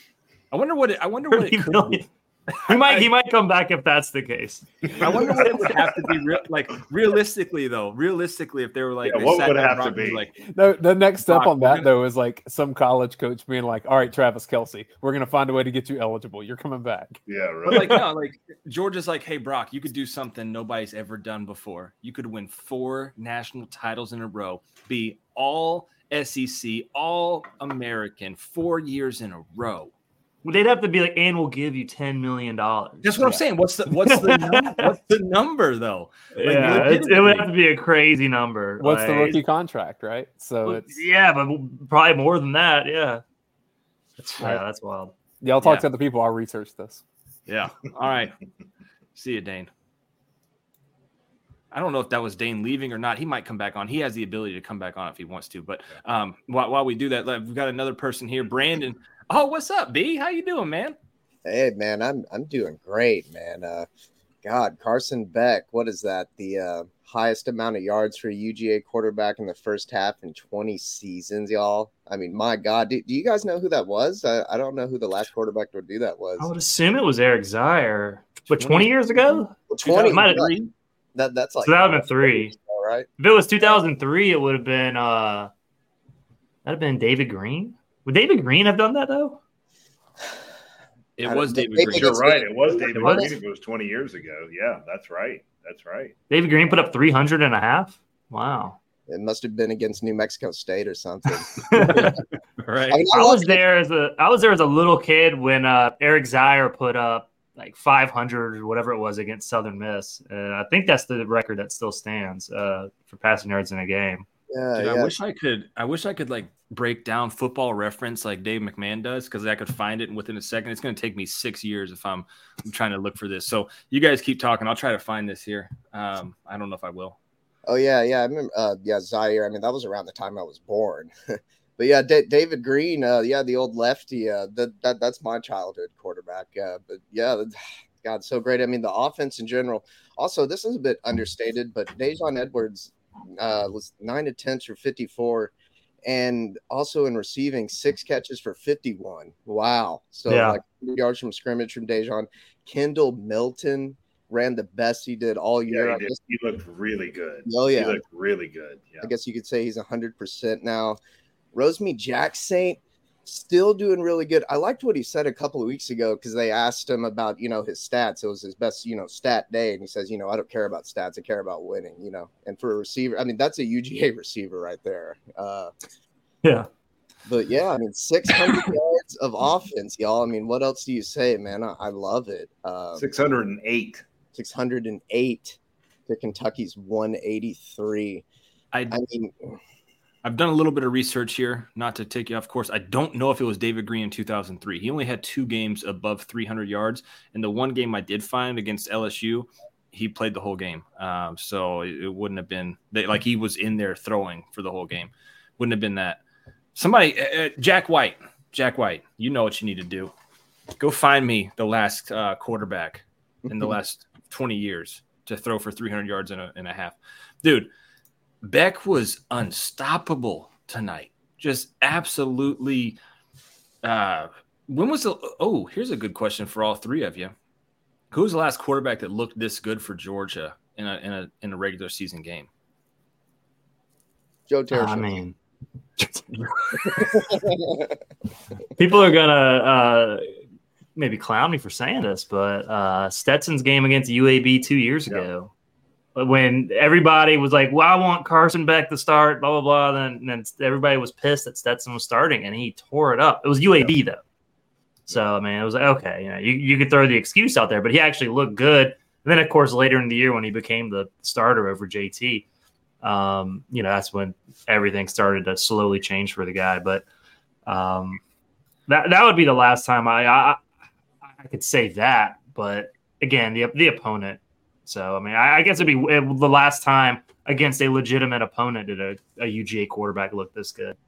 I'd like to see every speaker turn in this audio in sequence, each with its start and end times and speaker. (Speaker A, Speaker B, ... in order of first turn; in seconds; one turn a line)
Speaker A: 0.5-3.1
Speaker B: 1.3-2.0
Speaker B: 2.6-5.8
Speaker A: 5.0-10.3
Speaker C: 9.0-10.3
Speaker D: 10.4-17.2
Speaker A: 11.3-11.9
Speaker C: 17.3-18.0
Speaker A: 17.7-29.9
Speaker B: 30.4-34.9
Speaker A: 33.0-37.5
Speaker B: 36.4-39.4
Speaker D: 38.8-41.0
Speaker B: 40.6-43.2
Speaker B: 44.2-45.1
Speaker D: 45.4-47.0
Speaker A: 45.6-45.9
Speaker A: 47.5-48.4
Speaker A: 49.1-49.7
Speaker A: 51.7-61.0
Speaker E: 61.4-63.9
Speaker E: 64.4-76.5
Speaker B: 76.4-80.7
Speaker A: 78.6-78.8
Speaker E: 79.7-80.5
Speaker E: 81.1-83.1
Speaker B: 81.6-82.5
Speaker B: 83.2-85.5
Speaker B: 86.6-89.4
Speaker A: 91.2-92.5
Speaker E: 91.2-93.4
Speaker C: 91.9-96.1
Speaker B: 92.9-93.3
Speaker B: 96.3-98.8
Speaker E: 99.1-102.1
Speaker B: 101.7-102.2
Speaker B: 102.7-114.2
Speaker E: 102.9-103.6
Speaker E: 114.5-115.1
Speaker A: 114.8-127.2
Speaker E: 127.7-131.1
Speaker E: 131.8-145.5
Speaker E: 146.1-156.2
Speaker B: 150.3-150.6
Speaker C: 155.7-159.1
Speaker E: 157.4-158.0
Speaker E: 159.0-161.0
Speaker E: 161.5-175.7
Speaker E: 177.2-183.0
Speaker C: 183.0-184.1
Speaker E: 184.3-188.2
Speaker E: 188.9-189.3
Speaker A: 190.2-206.2
Speaker A: 206.7-210.1
Speaker A: 210.8-217.7
Speaker A: 218.4-223.0
Speaker A: 223.8-227.3
Speaker A: 228.1-232.5
Speaker E: 234.5-235.2
Speaker B: 234.7-235.3
Speaker B: 236.0-237.1
Speaker E: 237.0-237.4
Speaker B: 238.8-240.3
Speaker B: 241.0-245.5
Speaker B: 246.2-254.2
Speaker B: 255.1-262.4
Speaker B: 263.0-267.0
Speaker B: 267.6-268.2
Speaker B: 268.9-270.6
Speaker B: 271.3-281.0